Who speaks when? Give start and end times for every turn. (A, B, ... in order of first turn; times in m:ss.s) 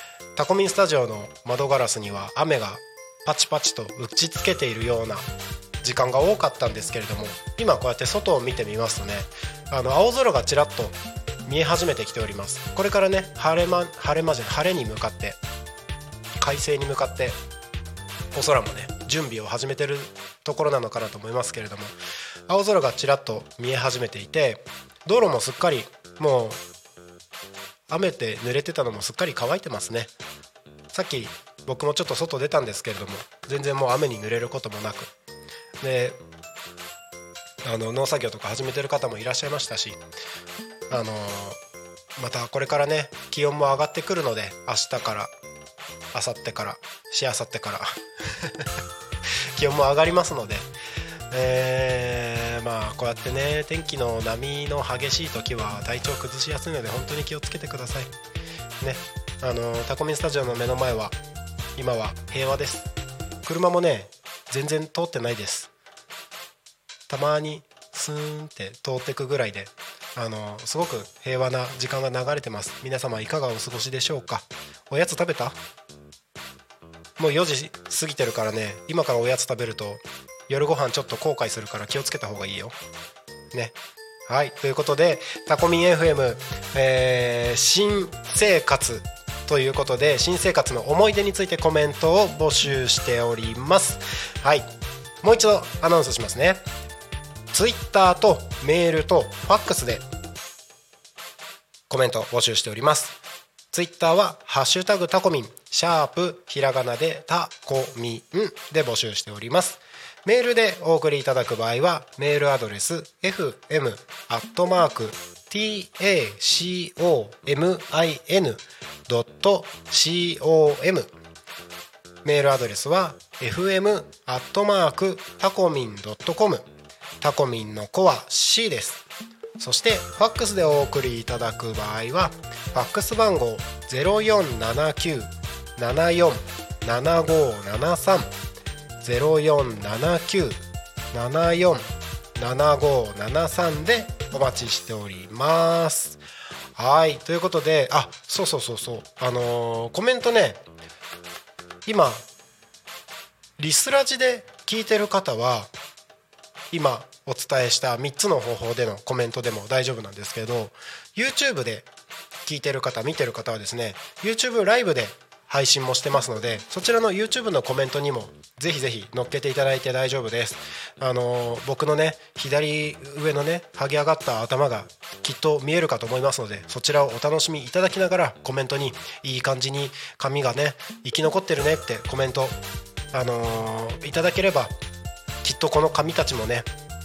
0:00.4-0:05.3 A
0:05.8-0:15.4 A
0:16.4-0:17.4 A
0:18.3-0:21.9 A
0:22.5-0:26.6 A
0:27.9-0:30.1 A
0:30.9-0:35.1 A
0:35.8-0:36.2 A
0:37.6-0:40.0 A
0:40.9-0:41.6 A
0:42.2-0:45.3 A
0:46.1-0:48.7 A
0:49.6-0:50.7 A
0:51.3-0:58.1 A
0:58.8-1:01.2 A
1:01.8-1:02.9 A
1:03.4-1:05.7 A
1:07.1-1:15.6 A
1:17.2-1:22.8 A
1:24.3-1:34.7 A
1:35.2-1:36.6 A
1:37.5-1:40.0 A
1:41.9-1:43.2 A
1:43.7-2:01.1 A
2:02.2-2:06.7 A
2:07.2-2:09.0 A
2:09.6-2:18.3 A
2:19.0-2:21.8 A
2:22.4-2:26.2 A
2:26.8-2:30.6 A
2:31.9-2:32.2 A
2:33.6-2:35.7 A
2:36.7-2:41.9 A
2:42.5-3:02.6 A
3:03.1-3:04.7 A
3:05.4-3:06.7 A